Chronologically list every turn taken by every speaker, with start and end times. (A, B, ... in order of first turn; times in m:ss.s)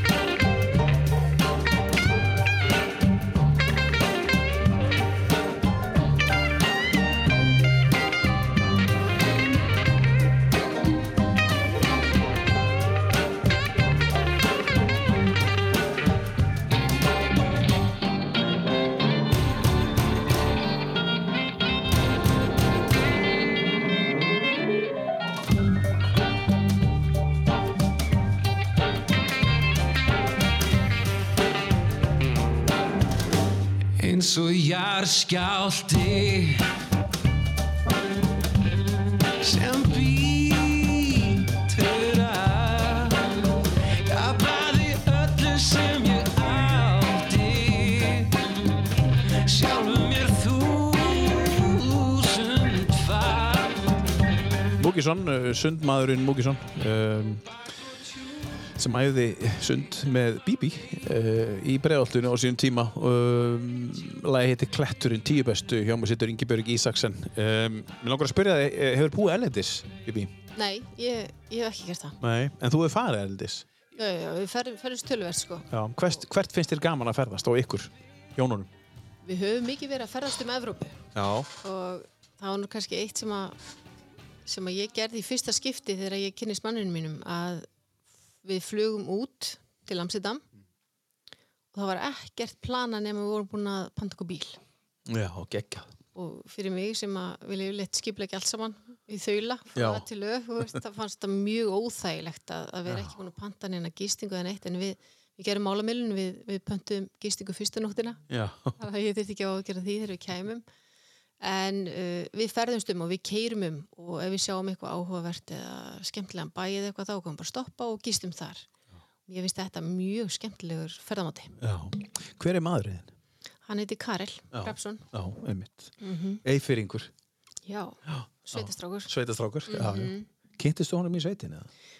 0:34.0-0:36.6 A
0:39.4-0:43.4 A
0:44.1-0:48.5 A
0:49.4-0:54.0 A
0:54.8-0:57.4 B
0:58.7-1:10.3 B
1:10.5-1:12.2 C
1:12.2-1:13.6 B
1:13.9-1:15.7 C
1:15.7-1:18.7 B
1:19.2-1:21.0 C
1:21.1-1:21.5 B
1:21.6-1:23.6 C
1:24.4-1:27.6 C
1:28.4-1:30.4 C
1:31.7-1:34.6 C
1:35.1-1:35.9 B
1:36.1-1:48.2 C
1:39.7-1:40.0 B
1:42.9-1:43.1 B
1:48.3-1:48.8 B
1:48.8-1:50.6 C
1:51.4-1:58.7 C
1:59.3-2:01.5 C
2:01.6-2:03.1 B
2:03.6-2:05.0 C
2:04.5-2:05.9 B
2:06.0-2:06.4 C
2:06.4-2:07.1 B
2:07.6-2:09.1 C
2:08.1-2:11.7 B
2:09.7-2:10.3 C